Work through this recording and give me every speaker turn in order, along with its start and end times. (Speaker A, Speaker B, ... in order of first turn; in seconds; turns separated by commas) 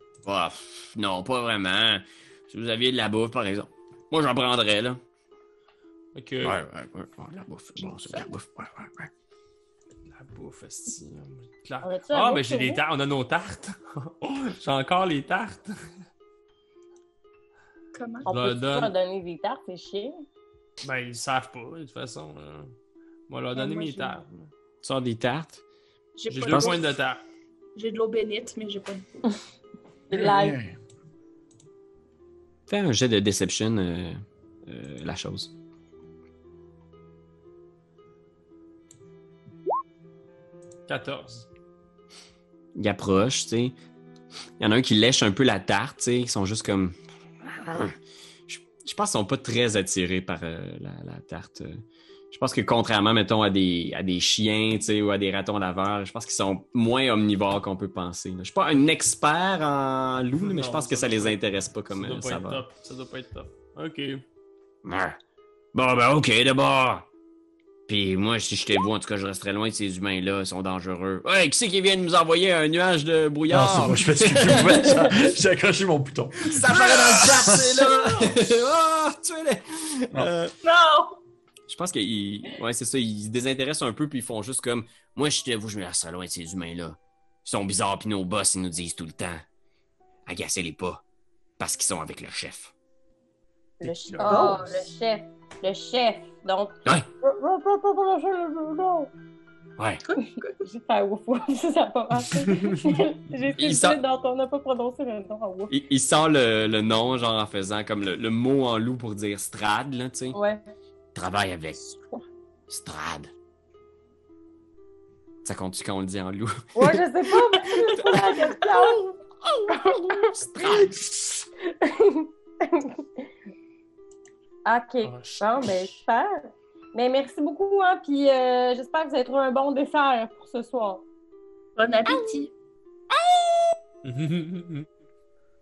Speaker A: 0.2-5.0, Speaker B: 6.2-6.5, Speaker A: 6.4-9.1, Speaker B: 10.1-15.8, Speaker C: 11.8-12.8, Speaker D: 17.9-18.3, Speaker C: 18.2-20.1, Speaker B: 18.3-18.9, Speaker B: 20.8-22.7, Speaker B: 23.3-24.5, Speaker D: 23.6-24.1, Speaker A: 24.8-25.6, Speaker D: 26.2-27.0, Speaker B: 26.3-27.2, Speaker A: 26.5-26.8, Speaker D: 27.8-29.1, Speaker C: 30.1-30.6, Speaker E: 30.1-30.8, Speaker A: 32.7-35.5, Speaker B: 40.9-41.5, Speaker A: 42.8-43.8, Speaker A: 44.6-48.0, Speaker A: 48.5-62.6, Speaker B: 60.4-61.4, Speaker B: 61.9-64.2, Speaker A: 64.8-65.2, Speaker A: 65.7-67.1, Speaker A: 67.9-75.1, Speaker F: 73.5-77.6, Speaker E: 73.6-74.9, Speaker A: 76.4-80.5, Speaker E: 77.2-77.7, Speaker D: 80.6-81.2, Speaker A: 81.7-89.4, Speaker A: 90.3-91.0, Speaker A: 91.6-92.7, Speaker C: 93.8-99.1, Speaker B: 93.8-94.8, Speaker D: 94.3-94.7, Speaker D: 100.0-100.6, Speaker C: 100.6-105.7, Speaker B: 102.6-102.9, Speaker A: 103.6-104.0, Speaker A: 105.7-110.4, Speaker C: 110.3-110.6, Speaker A: 111.2-111.8, Speaker A: 112.7-113.3, Speaker A: 115.4-117.0, Speaker C: 116.8-119.1, Speaker A: 117.6-121.5, Speaker C: 119.8-120.9, Speaker C: 121.7-123.3, Speaker C: 124.7-131.0, Speaker B: 125.0-126.0, Speaker D: 131.8-132.5, Speaker A: 133.1-133.8, Speaker B: 134.0-134.9